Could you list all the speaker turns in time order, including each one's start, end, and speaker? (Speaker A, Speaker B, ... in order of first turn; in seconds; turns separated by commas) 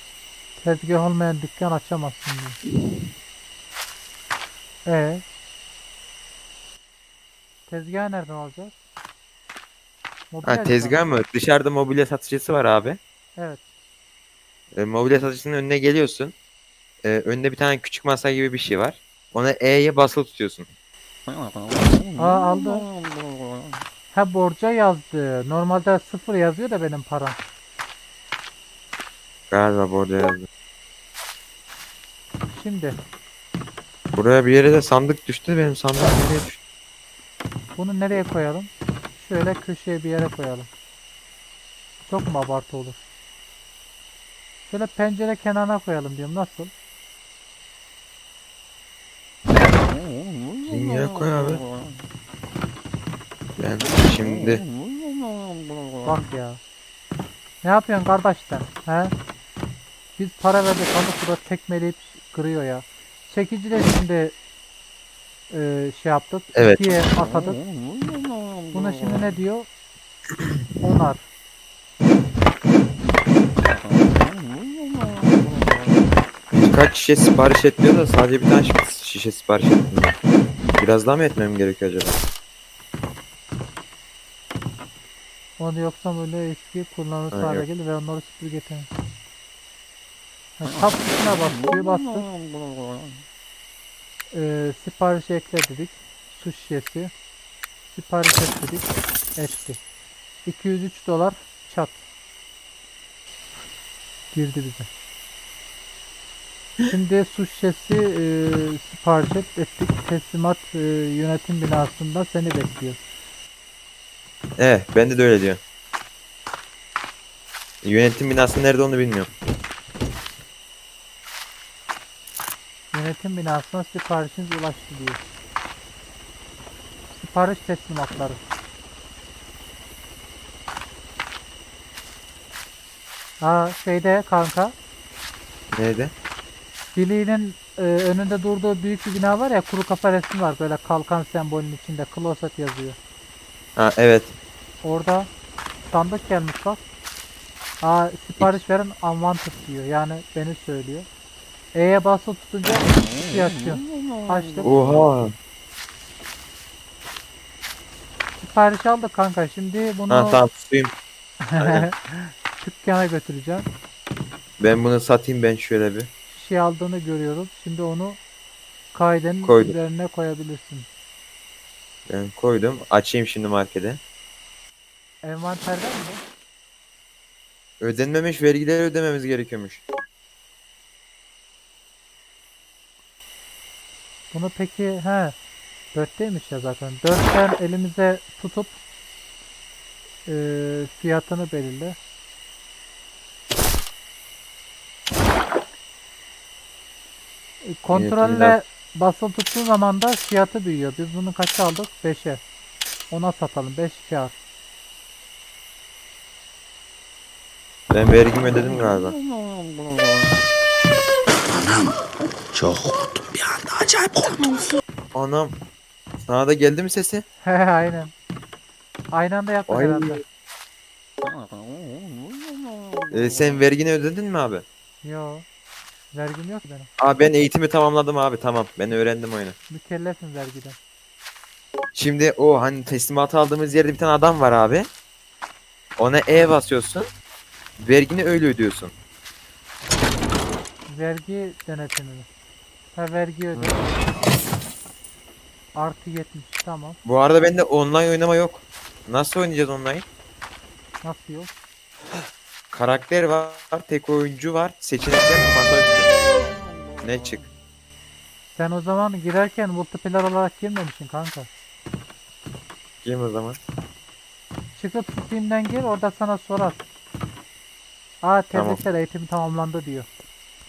Speaker A: 0.6-2.6, Speaker A: 4.9-5.2, Speaker A: 7.7-8.7, Speaker A: 10.3-11.0, Speaker B: 10.4-13.0, Speaker B: 14.8-16.3, Speaker B: 17.0-20.7, Speaker A: 22.2-22.9, Speaker A: 24.1-27.4, Speaker B: 29.5-30.5, Speaker A: 32.5-33.0, Speaker B: 34.1-36.6, Speaker A: 37.8-40.7, Speaker A: 42.1-43.0, Speaker A: 44.7-46.7, Speaker B: 50.6-51.6, Speaker B: 53.6-54.6, Speaker A: 56.0-56.6, Speaker A: 57.6-59.1, Speaker A: 60.2-64.3, Speaker A: 65.5-67.6, Speaker B: 66.5-66.9, Speaker A: 68.7-69.7, Speaker A: 70.8-71.2, Speaker B: 76.5-80.2, Speaker B: 80.8-82.2, Speaker A: 85.6-88.9, Speaker B: 87.3-87.7, Speaker A: 90.6-92.3, Speaker A: 94.3-97.1, Speaker A: 97.9-99.8, Speaker A: 100.5-102.0, Speaker A: 104.3-104.9, Speaker A: 106.9-113.0, Speaker B: 114.6-115.6, Speaker B: 117.8-119.3, Speaker A: 122.9-125.2, Speaker A: 127.1-128.4, Speaker A: 133.4-134.8, Speaker B: 135.7-136.1, Speaker A: 136.9-143.0, Speaker B: 143.8-144.4, Speaker A: 144.8-145.3, Speaker A: 145.9-146.8, Speaker A: 147.8-151.1, Speaker A: 151.8-155.0, Speaker B: 154.6-155.3, Speaker A: 158.4-160.4, Speaker B: 160.1-160.9, Speaker A: 161.4-163.7, Speaker B: 161.6-161.9, Speaker B: 164.6-166.1, Speaker A: 166.3-168.2, Speaker A: 168.9-170.9, Speaker B: 169.4-169.8, Speaker B: 172.1-174.0, Speaker A: 175.2-176.2, Speaker B: 177.8-179.8, Speaker A: 184.3-185.4, Speaker A: 185.9-188.8, Speaker A: 190.2-192.0, Speaker A: 197.6-202.4, Speaker B: 197.9-198.6, Speaker A: 203.1-204.4, Speaker B: 207.9-209.2, Speaker C: 211.6-211.9, Speaker C: 212.5-214.5, Speaker B: 215.2-215.6, Speaker B: 216.3-217.2, Speaker A: 217.4-218.1, Speaker A: 219.1-220.2, Speaker B: 219.7-220.2, Speaker B: 223.1-224.7, Speaker A: 225.0-225.4, Speaker A: 226.1-226.9, Speaker B: 227.0-229.6, Speaker A: 229.7-230.8, Speaker B: 231.9-234.9, Speaker B: 236.0-237.1, Speaker B: 237.8-238.9, Speaker A: 240.9-242.3, Speaker A: 242.9-243.9, Speaker B: 243.6-243.8, Speaker A: 245.8-247.0, Speaker B: 247.1-250.1, Speaker A: 251.0-251.5, Speaker B: 252.7-256.1, Speaker B: 257.0-257.5, Speaker A: 258.5-261.5, Speaker B: 263.0-263.6, Speaker A: 264.8-266.8, Speaker A: 268.2-270.1, Speaker B: 268.5-268.8